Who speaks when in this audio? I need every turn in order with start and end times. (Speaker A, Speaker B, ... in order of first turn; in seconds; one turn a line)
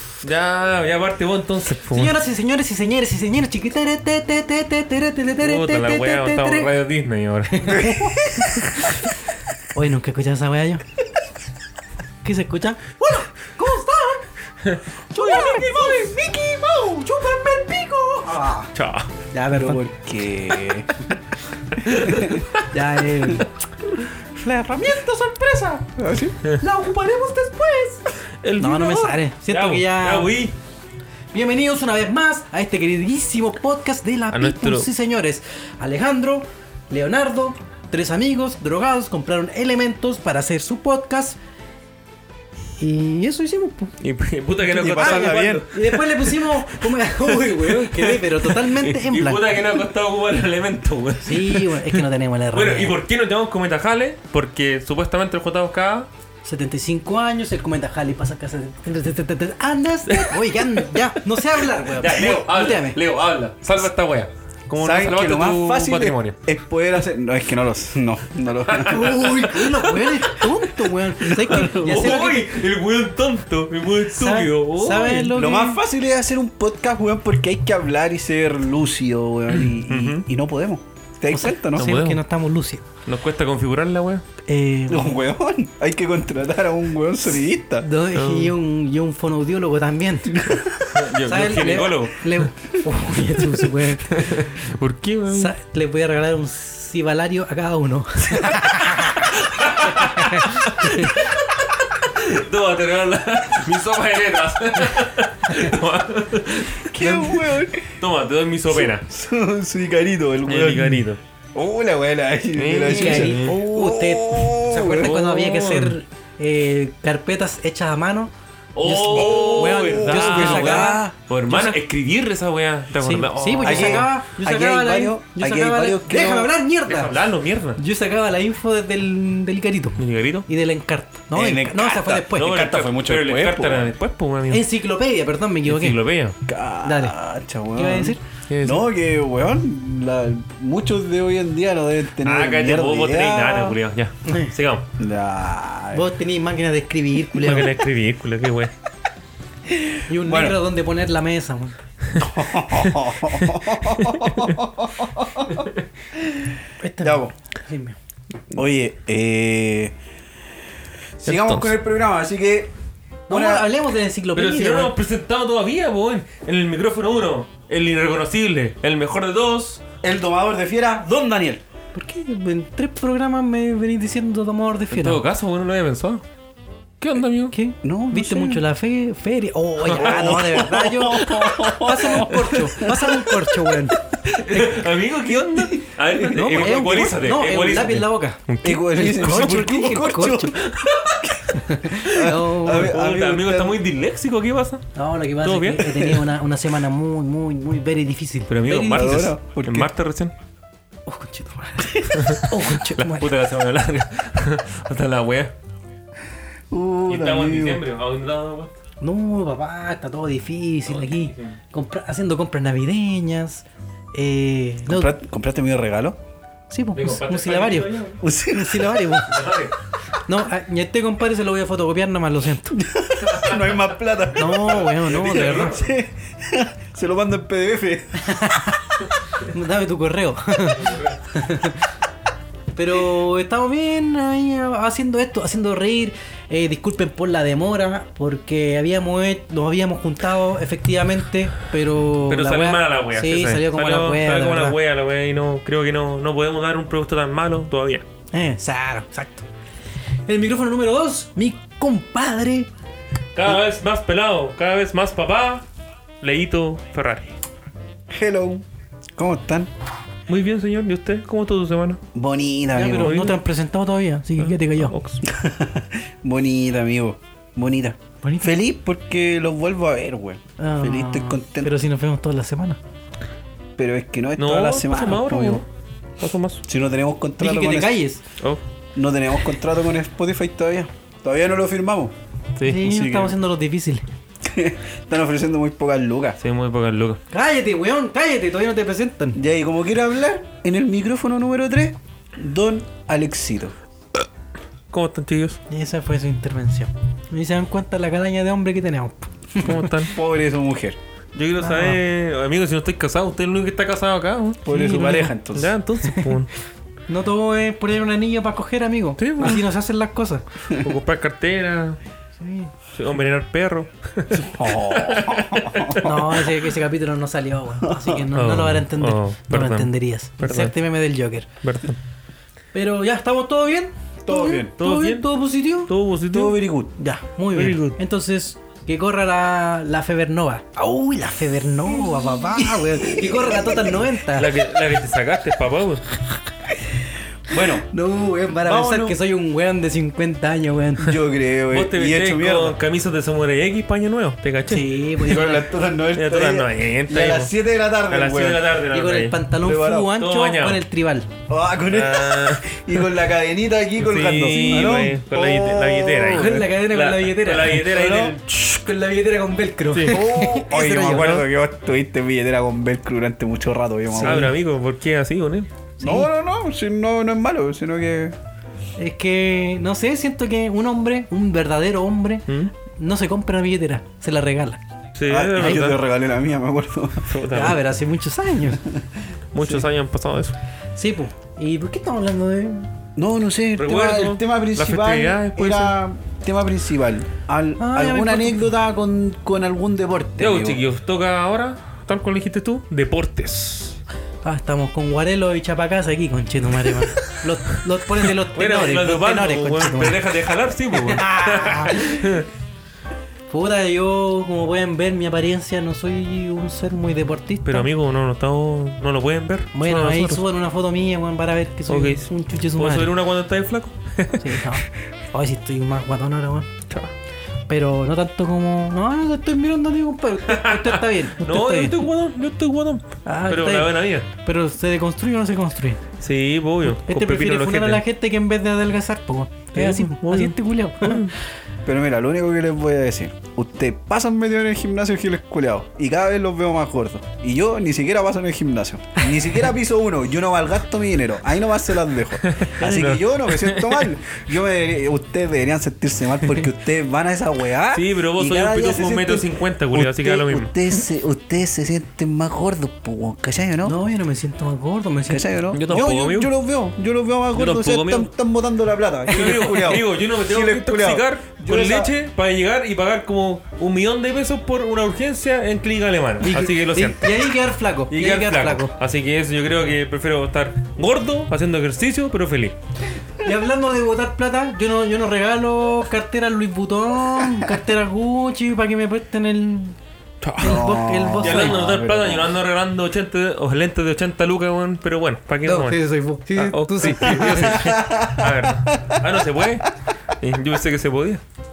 Speaker A: 0.2-2.2
Speaker B: 1.9-6.7
Speaker A: 5.4-7.8
Speaker B: 7.5-8.9
Speaker C: 7.8-8.5
Speaker B: 9.7-10.8
Speaker B: 12.2-14.3
Speaker A: 14.7-15.7
Speaker B: 15.1-18.7
Speaker A: 18.7-19.1
Speaker B: 19.3-19.8
Speaker C: 19.5-21.0
Speaker A: 21.8-22.6
Speaker C: 21.9-22.4
Speaker B: 22.6-23.5
Speaker B: 24.2-25.9
Speaker C: 26.0-26.4
Speaker B: 26.6-28.1
Speaker A: 28.4-30.5
Speaker B: 28.6-30.4
Speaker B: 31.3-41.4
Speaker A: 34.3-34.9
Speaker B: 42.8-44.0
Speaker A: 44.0-56.1
Speaker C: 44.7-45.6
Speaker B: 44.8-49.7
Speaker B: 51.2-53.0
Speaker B: 56.5-63.0
Speaker A: 60.1-66.4
Speaker C: 64.8-69.6
Speaker A: 68.7-70.4
Speaker B: 68.8-72.5
Speaker C: 71.3-72.1
Speaker A: 71.5-75.4
Speaker B: 74.1-75.8
Speaker C: 75.3-81.9
Speaker A: 79.5-80.2
Speaker B: 81.3-82.9
Speaker A: 81.8-82.2
Speaker A: 83.1-84.2
Speaker B: 84.5-85.2
Speaker C: 84.9-87.9
Speaker B: 87.8-90.4
Speaker A: 88.1-88.5
Speaker C: 90.3-91.0
Speaker A: 90.9-92.5
Speaker B: 91.3-94.3
Speaker A: 94.1-95.5
Speaker B: 95.3-99.3
Speaker A: 99.3-107.2
Speaker B: 99.9-101.3
Speaker C: 106.8-108.0
Speaker B: 107.0-107.4
Speaker A: 108.0-109.0
Speaker C: 108.7-111.0
Speaker A: 110.5-111.2
Speaker C: 111.5-115.2
Speaker A: 112.6-113.6
Speaker B: 112.9-118.3
Speaker A: 115.0-116.0
Speaker A: 118.8-124.1
Speaker B: 118.8-121.6
Speaker C: 119.1-121.2
Speaker B: 123.0-127.2
Speaker C: 123.6-126.5
Speaker A: 126.9-127.8
Speaker B: 127.8-132.5
Speaker A: 130.0-130.5
Speaker C: 131.3-133.9
Speaker A: 132.4-134.7
Speaker B: 134.5-136.0
Speaker A: 135.7-136.3
Speaker C: 136.5-143.8
Speaker B: 136.8-137.2
Speaker B: 137.8-138.2
Speaker A: 138.5-138.9
Speaker A: 142.2-144.9
Speaker B: 144.3-144.5
Speaker C: 145.0-146.0
Speaker B: 145.9-147.8
Speaker A: 147.3-148.7
Speaker C: 149.7-150.6
Speaker B: 150.1-151.8
Speaker C: 152.2-155.7
Speaker A: 154.0-154.5
Speaker C: 156.2-156.5
Speaker B: 156.8-158.0
Speaker C: 157.0-157.3
Speaker C: 158.5-159.9
Speaker C: 161.2-162.7
Speaker A: 161.3-161.7
Speaker B: 163.3-164.9
Speaker C: 163.3-163.7
Speaker A: 164.3-169.8
Speaker C: 170.0-171.6
Speaker B: 171.9-175.2
Speaker A: 174.9-176.2
Speaker A: 177.0-177.6
Speaker B: 177.5-184.8
Speaker C: 177.8-178.6
Speaker C: 179.9-183.2
Speaker A: 184.2-189.2
Speaker C: 185.4-186.9
Speaker B: 186.3-190.6
Speaker C: 188.6-193.8
Speaker A: 190.7-191.2
Speaker B: 191.5-192.9
Speaker A: 192.1-194.9
Speaker B: 194.9-199.3
Speaker A: 195.4-196.2
Speaker A: 198.5-200.3
Speaker C: 198.9-199.9
Speaker B: 201.1-203.3
Speaker A: 202.2-205.5
Speaker C: 206.7-207.8
Speaker A: 207.1-208.8
Speaker B: 209.0-215.1
Speaker A: 210.9-211.5
Speaker C: 214.9-216.2
Speaker B: 216.7-219.4
Speaker A: 216.9-218.2
Speaker C: 218.2-219.2
Speaker A: 219.3-219.8
Speaker B: 220.3-222.8
Speaker C: 222.7-228.3
Speaker A: 223.2-223.9
Speaker B: 224.3-225.8
Speaker A: 224.5-225.8
Speaker B: 228.2-231.8
Speaker A: 230.7-231.2
Speaker B: 232.8-244.8
Speaker A: 242.3-248.1
Speaker B: 248.3-249.4
Speaker B: 250.3-252.7
Speaker A: 253.3-255.7
Speaker A: 256.2-257.3
Speaker C: 258.1-258.6
Speaker C: 259.2-259.7
Speaker A: 260.3-262.0
Speaker C: 262.1-263.3
Speaker B: 262.7-264.9
Speaker A: 262.9-263.4
Speaker A: 264.4-265.2
Speaker C: 265.2-271.7
Speaker B: 268.2-268.5
Speaker B: 270.6-272.8
Speaker C: 273.8-275.6
Speaker A: 274.4-275.6
Speaker A: 276.2-276.6
Speaker C: 276.6-278.0
Speaker B: 277.4-278.2
Speaker C: 278.9-282.1
Speaker A: 282.6-283.3
Speaker B: 282.6-284.1
Speaker C: 284.4-286.4
Speaker A: 286.4-287.2
Speaker B: 287.3-289.4
Speaker C: 289.4-293.8
Speaker A: 294.9-295.6
Speaker B: 295.7-299.9
Speaker A: 299.6-300.1
Speaker C: 300.1-301.0
Speaker A: 301.4-306.5
Speaker B: 301.6-302.0
Speaker C: 304.6-305.8
Speaker B: 304.7-305.3
Speaker B: 306.1-306.3
Speaker B: 307.1-310.4
Speaker A: 309.2-309.6
Speaker A: 310.8-312.0
Speaker B: 312.4-312.7
Speaker A: 312.9-316.4
Speaker C: 314.3-316.0
Speaker B: 316.0-321.5
Speaker C: 317.8-318.2
Speaker A: 318.4-320.7
Speaker A: 321.6-322.0
Speaker B: 322.7-325.9
Speaker C: 324.3-324.7
Speaker A: 324.8-325.3
Speaker A: 325.8-326.6
Speaker C: 326.3-326.9
Speaker B: 327.0-334.5
Speaker A: 327.5-328.0
Speaker C: 330.8-331.3
Speaker C: 331.9-334.0
Speaker A: 334.3-336.0
Speaker C: 337.5-337.9
Speaker B: 337.8-341.1
Speaker C: 338.6-339.2
Speaker C: 341.0-342.8
Speaker A: 341.7-347.5
Speaker B: 344.7-345.6
Speaker C: 345.2-348.7
Speaker A: 348.1-349.4
Speaker B: 348.9-351.3
Speaker C: 349.6-350.2
Speaker A: 350.1-350.8
Speaker C: 351.5-356.8
Speaker A: 351.9-352.8
Speaker A: 354.0-358.5
Speaker B: 356.3-361.4
Speaker C: 357.8-358.4
Speaker A: 359.9-360.2
Speaker C: 360.1-364.6
Speaker A: 361.0-361.4
Speaker A: 364.1-365.7
Speaker B: 364.2-364.5
Speaker B: 366.0-366.3
Speaker C: 366.0-368.4
Speaker B: 369.0-374.8
Speaker A: 375.2-376.0
Speaker C: 375.3-377.3
Speaker B: 375.6-375.9
Speaker A: 377.3-377.8
Speaker B: 377.5-378.8
Speaker A: 379.5-380.6
Speaker B: 381.0-382.9
Speaker C: 383.2-390.8
Speaker A: 383.8-386.0
Speaker B: 387.8-388.7
Speaker A: 390.4-394.0
Speaker B: 394.4-400.2
Speaker A: 398.2-402.5
Speaker B: 400.9-402.3
Speaker B: 403.5-407.9
Speaker A: 407.7-410.4
Speaker B: 409.7-413.1
Speaker A: 411.9-414.7
Speaker B: 414.4-416.7
Speaker B: 417.7-422.0
Speaker A: 420.5-424.3
Speaker B: 423.3-426.0
Speaker A: 426.2-428.0
Speaker B: 426.9-431.3
Speaker A: 429.8-431.3
Speaker C: 431.9-454.0
Speaker A: 442.5-444.1
Speaker A: 447.9-450.8
Speaker B: 453.9-455.5
Speaker C: 455.3-462.1
Speaker A: 455.7-456.5
Speaker A: 457.5-458.3
Speaker A: 459.3-467.5
Speaker B: 466.4-468.9
Speaker A: 468.1-472.8
Speaker B: 473.4-480.0
Speaker A: 480.4-486.0
Speaker B: 480.6-481.8
Speaker C: 480.6-482.5
Speaker B: 485.6-487.9
Speaker A: 486.6-491.4
Speaker C: 487.5-489.1